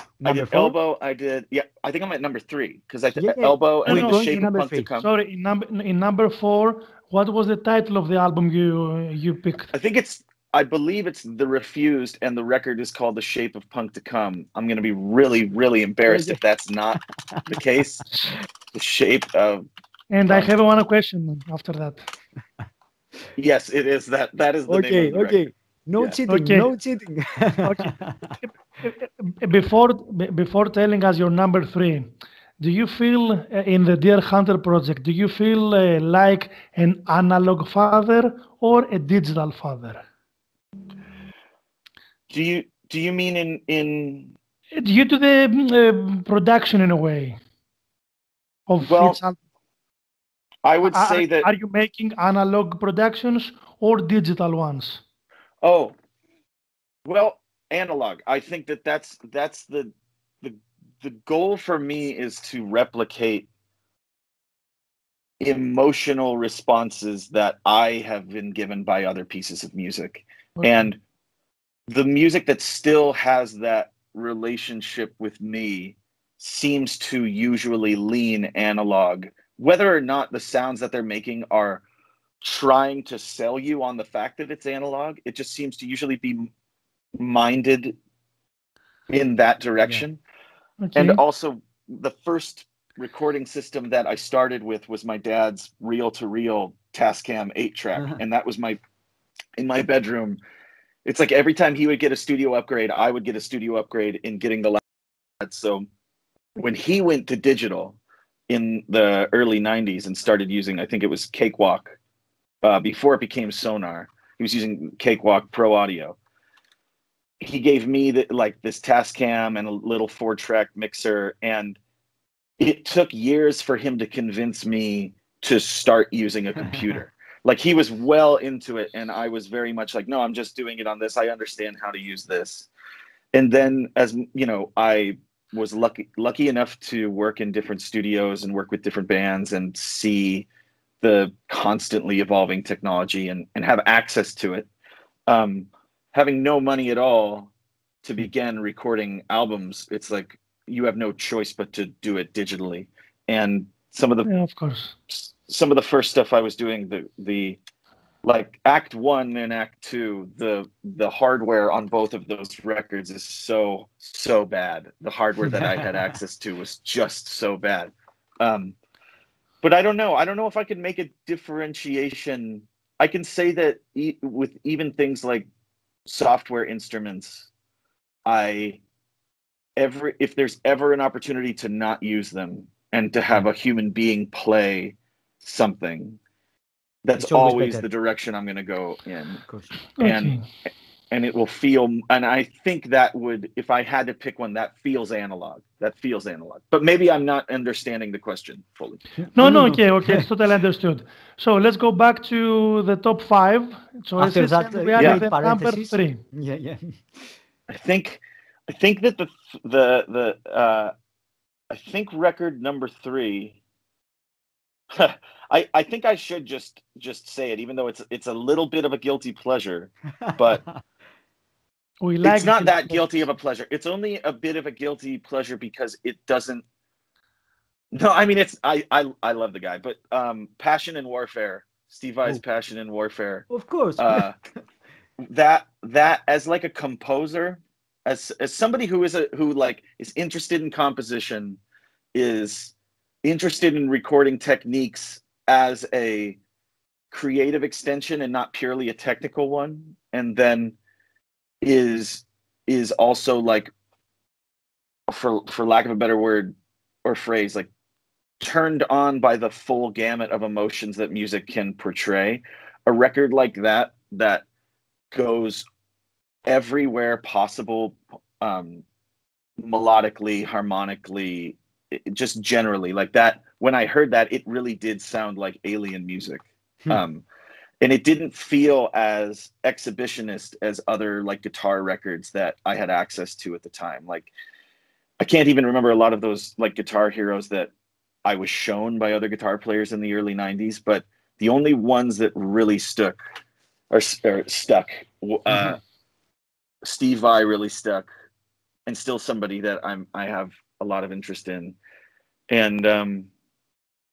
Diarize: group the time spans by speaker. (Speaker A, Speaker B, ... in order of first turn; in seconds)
Speaker A: 0.2-0.7, 3.1-4.9, 16.1-16.4, 17.3-17.6, 24.7-28.3, 126.7-127.0, 165.4-165.9, 187.2-187.8, 189.4-189.8, 199.2-200.2, 204.2-207.3, 220.2-220.6, 233.5-234.2, 295.5-295.8
Speaker B: 0.2-5.0, 9.7-18.0, 18.7-19.6, 23.4-25.4, 42.3-44.3, 48.8-49.2, 50.6-51.5, 55.6-55.9, 57.0-63.5, 65.4-71.0, 71.9-81.8, 82.4-86.5, 87.2-87.9, 89.1-90.2, 90.9-98.8, 99.6-100.4, 101.0-104.8, 105.4-105.9, 106.6-108.0, 108.5-112.0, 112.6-116.2, 117.4-121.8, 122.6-132.7, 133.3-140.4, 141.0-144.7, 145.3-147.5, 148.0-154.3, 155.1-157.6, 158.2-168.7, 169.6-175.4, 176.1-177.5, 178.2-178.8, 179.8-186.2, 187.0-189.4, 190.0-190.4, 191.1-199.0, 205.0-205.2, 207.7-210.9, 211.7-213.6, 214.9-220.6, 222.2-226.6, 227.9-234.4, 235.2-241.6, 242.1-246.4, 247.1-250.8, 251.6-253.7, 255.1-257.7, 258.4-264.4, 265.1-265.6, 266.4-268.8, 269.6-277.2, 277.8-284.3, 285.2-287.7, 288.2-293.2, 293.9-295.8, 296.8-298.1, 298.9-301.7, 302.5-303.3
Speaker C: 3.9-4.5, 5.0-9.7, 20.1-22.0, 26.3-26.7, 27.6-40.0, 44.7-47.4, 48.7-49.4, 50.9-55.0, 70.6-70.9, 90.8-91.2, 154.2-154.9, 190.0-190.4, 199.3-206.2, 222.0-223.1